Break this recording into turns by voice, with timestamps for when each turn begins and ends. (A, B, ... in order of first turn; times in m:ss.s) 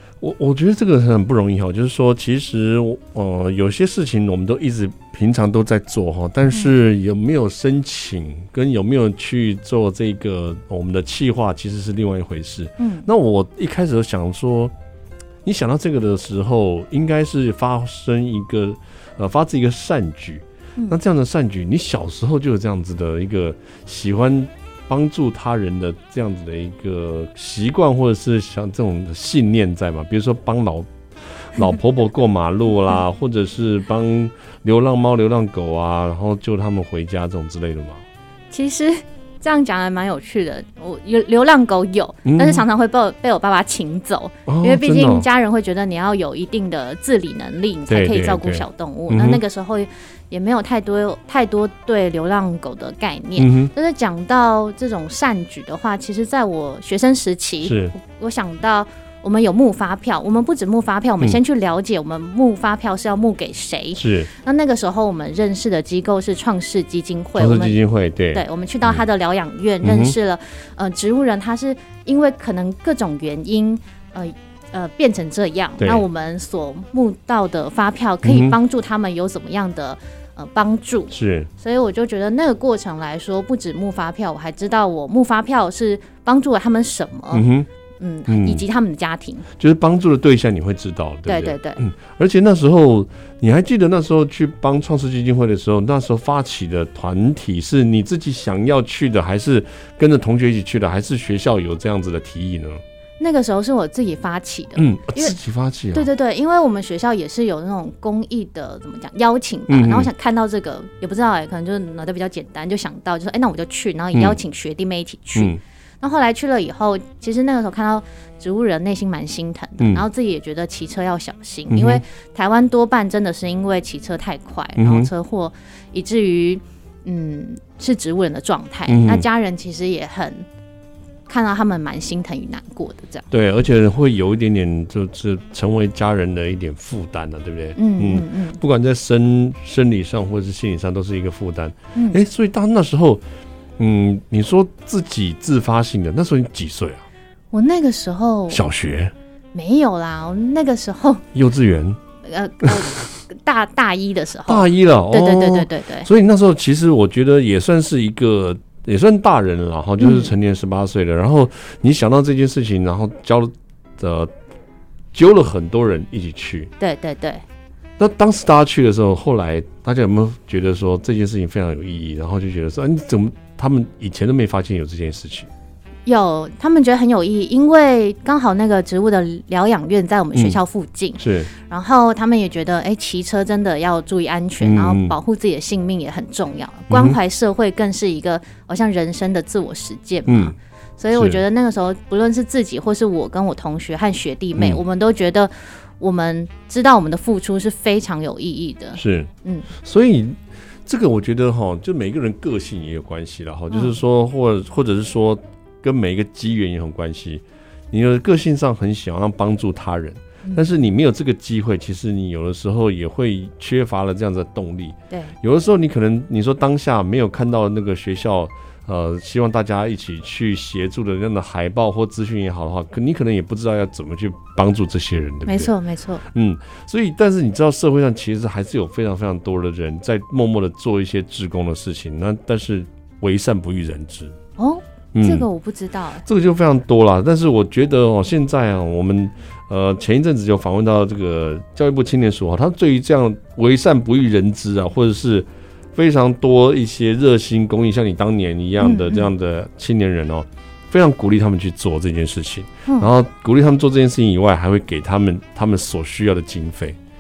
0:00.2-0:14.7 A
0:12.8-0:13.1 B
0:15.4-0:30.9 A
0:31.5-0:38.0 A
0:38.5-1:07.8 B
0:42.2-0:42.6 A
0:44.4-0:45.3 A
0:47.9-0:49.4 A
0:53.4-0:53.7 A
0:57.6-0:57.9 A
1:04.0-1:04.3 A
1:07.4-1:09.0 A
1:08.3-1:27.5 B
1:09.8-1:10.2 A
1:15.8-1:16.0 A
1:18.2-1:18.6 A
1:21.1-1:21.5 A
1:27.3-1:27.7 A
1:28.0-1:29.4 B
1:28.3-1:28.6 A
1:29.6-1:42.8 A
1:31.2-1:31.8 B
1:43.2-1:45.4 B
1:44.8-1:46.1 A
1:45.9-2:10.4 B
1:49.7-1:50.1 A
1:59.8-2:00.0 A
2:01.7-2:02.0 A
2:04.8-2:05.1 A
2:08.9-2:09.2 A
2:11.3-2:13.3 B
2:13.3-2:23.2 A
2:17.8-2:18.6 B
2:21.9-2:22.2 B
2:23.8-2:27.0 A
2:27.5-2:28.7 B
2:28.5-2:29.1 A
2:29.5-2:31.2 B
2:31.3-2:32.0 A
2:32.2-2:36.1 B
2:32.6-2:32.9 A
2:34.5-2:44.3 A
2:40.0-2:40.3 B
2:45.1-2:46.7 A
2:46.8-2:47.4 B
2:48.0-2:55.5 A
2:56.1-3:19.7 B
3:01.2-3:01.5 A
3:04.6-3:05.2 A
3:06.9-3:07.2 A
3:10.3-3:10.5 A
3:11.1-3:11.4 A
3:19.0-3:45.7 A
3:23.7-3:24.0 B
3:45.4-3:46.2 B
3:46.3-3:54.3 A
3:54.6-3:56.3 B
3:55.1-3:55.5 A
3:56.2-4:17.0 A
4:08.8-4:09.3 B